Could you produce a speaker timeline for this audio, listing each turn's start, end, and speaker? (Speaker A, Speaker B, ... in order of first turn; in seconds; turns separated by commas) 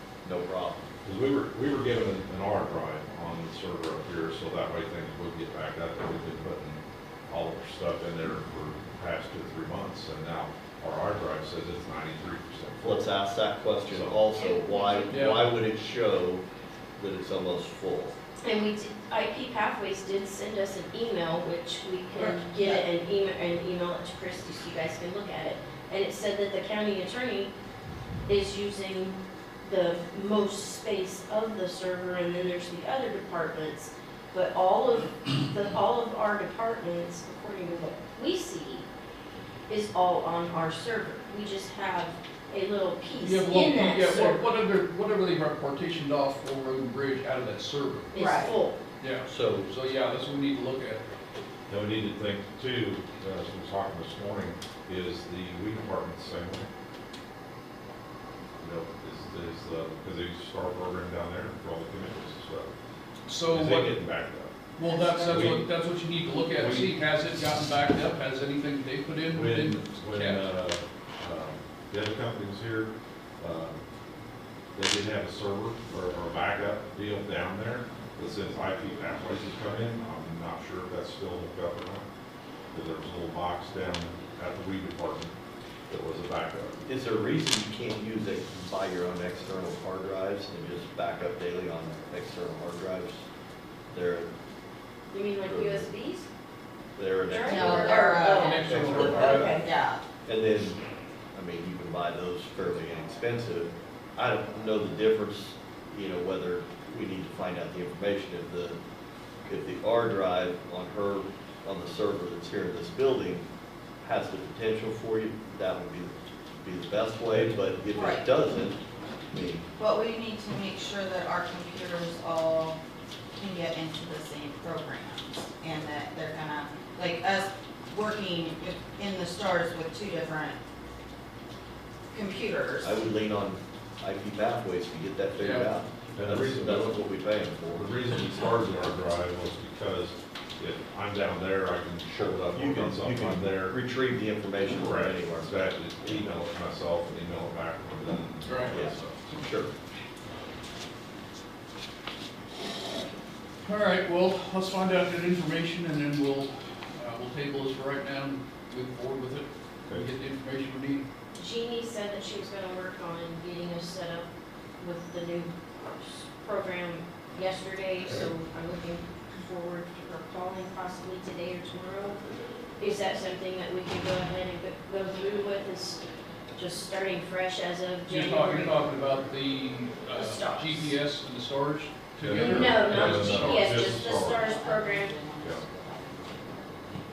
Speaker A: 0.2-0.9, Speaker B: 1.0-13.0, Speaker A: 12.8-16.4, Speaker B: 13.9-14.2, Speaker C: 14.3-15.3, Speaker D: 15.1-15.5, Speaker A: 17.0-18.1, Speaker C: 18.4-27.5, Speaker E: 22.2-22.8, Speaker C: 28.3-38.9, Speaker C: 39.7-44.4, Speaker D: 43.2-48.1, Speaker C: 48.1-48.8, Speaker E: 48.1-48.5, Speaker D: 49.0-51.0, Speaker A: 49.3-49.7, Speaker B: 51.7-56.7, Speaker B: 58.6-62.7, Speaker D: 63.3-64.0, Speaker B: 63.5-64.6, Speaker D: 64.8-70.5, Speaker E: 64.8-65.5, Speaker B: 65.2-65.7, Speaker B: 66.5-67.0, Speaker B: 69.3-73.8, Speaker B: 74.8-82.0, Speaker B: 82.7-85.3, Speaker B: 85.9-86.8, Speaker A: 86.9-93.2, Speaker A: 93.9-94.3, Speaker C: 95.1-96.3, Speaker A: 95.4-95.9, Speaker A: 97.0-99.6, Speaker C: 97.3-99.7, Speaker E: 97.5-100.0, Speaker D: 98.3-99.5, Speaker A: 100.3-100.8, Speaker A: 101.3-108.8, Speaker A: 109.4-113.5, Speaker A: 114.0-119.7, Speaker E: 117.9-118.3, Speaker E: 119.8-122.8, Speaker E: 123.4-130.6, Speaker E: 132.1-133.0, Speaker A: 132.8-137.9, Speaker D: 135.4-135.7, Speaker B: 136.2-137.0, Speaker B: 137.8-143.8, Speaker A: 142.1-146.2, Speaker B: 144.7-149.2, Speaker D: 148.4-148.7, Speaker A: 148.7-149.7, Speaker D: 153.6-161.1, Speaker C: 161.3-172.2, Speaker C: 172.8-176.0, Speaker C: 176.6-178.8, Speaker D: 178.1-183.9, Speaker C: 180.1-180.9, Speaker B: 182.2-184.5, Speaker C: 182.3-185.2, Speaker E: 183.5-187.0